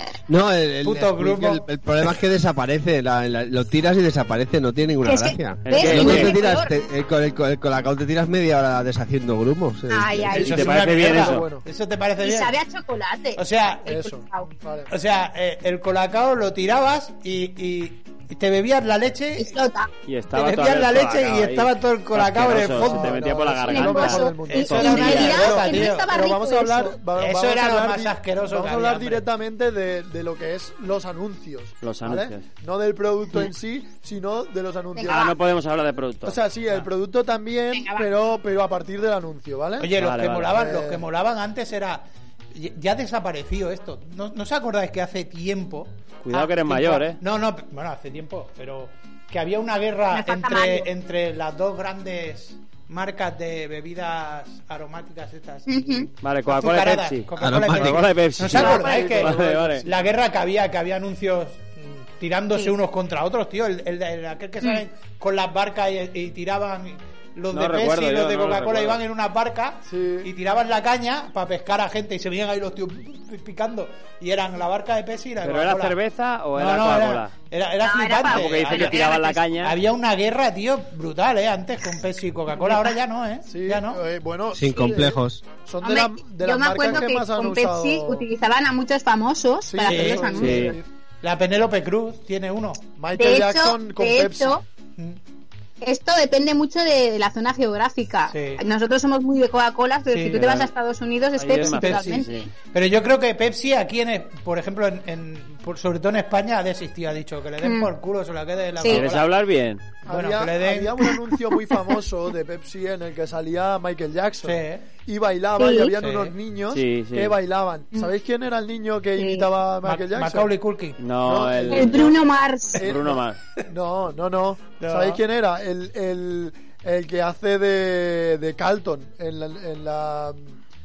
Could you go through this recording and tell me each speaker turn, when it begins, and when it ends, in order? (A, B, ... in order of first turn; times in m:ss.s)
0:00.3-0:10.6 A
0:00.8-0:01.6 B
0:05.0-0:06.7 C
0:05.6-0:06.4 D
0:09.9-0:10.7 C
0:10.3-0:12.5 B
0:10.4-0:11.4 D
0:10.9-0:11.6 E
0:12.2-0:14.4 C
0:13.4-0:13.9 B
0:13.8-0:14.9 E
0:14.9-0:19.6 B
0:19.4-0:19.9 C
0:20.1-0:25.6 D
0:20.3-0:23.3 B
0:22.7-0:35.3 E
0:23.7-0:27.0 C
0:24.5-0:26.1 B
0:27.2-0:29.2 B
0:31.8-0:32.4 D
0:35.0-0:35.3 C
0:35.1-0:36.4 D
0:36.2-0:39.9 E
0:37.7-0:38.0 C
0:39.8-1:16.0 B
0:40.0-0:40.5 D
0:40.5-0:41.0 E
0:46.2-0:47.2 D
0:50.1-0:50.9 C
0:55.7-0:56.1 C
0:56.2-0:59.8 D
0:57.4-0:58.1 A
0:58.4-1:00.0 E
1:07.5-1:09.0 D
1:09.8-1:10.3 E
1:15.4-1:17.3 D
1:16.6-1:24.0 B
1:17.8-1:19.3 C
1:18.2-1:19.7 D
1:23.4-1:28.3 E
1:24.5-1:25.4 A
1:25.8-1:30.8 C
1:29.6-1:30.9 E
1:29.8-1:30.6 B
1:30.4-1:30.7 D
1:31.2-1:32.8 B
1:33.0-1:34.6 E
1:33.1-1:34.6 C
1:35.8-1:42.5 C
1:38.3-1:38.6 B
1:40.1-1:40.6 B
1:40.4-1:40.7 D
1:41.4-1:42.5 D
1:41.6-1:49.3 B
1:47.6-1:47.9 C
1:48.9-1:49.8 D
1:50.0-2:00.5 E
1:50.1-1:51.0 B
1:54.4-1:54.8 B
1:55.6-1:55.9 C
1:56.0-1:56.3 B
1:56.7-1:57.4 D
1:59.2-1:59.4 C
1:59.8-2:01.0 B
2:01.0-2:02.2 D
2:01.2-2:02.2 E
2:01.7-2:02.8 C
2:02.7-2:10.6 E
2:02.8-2:03.4 D
2:04.8-2:05.2 B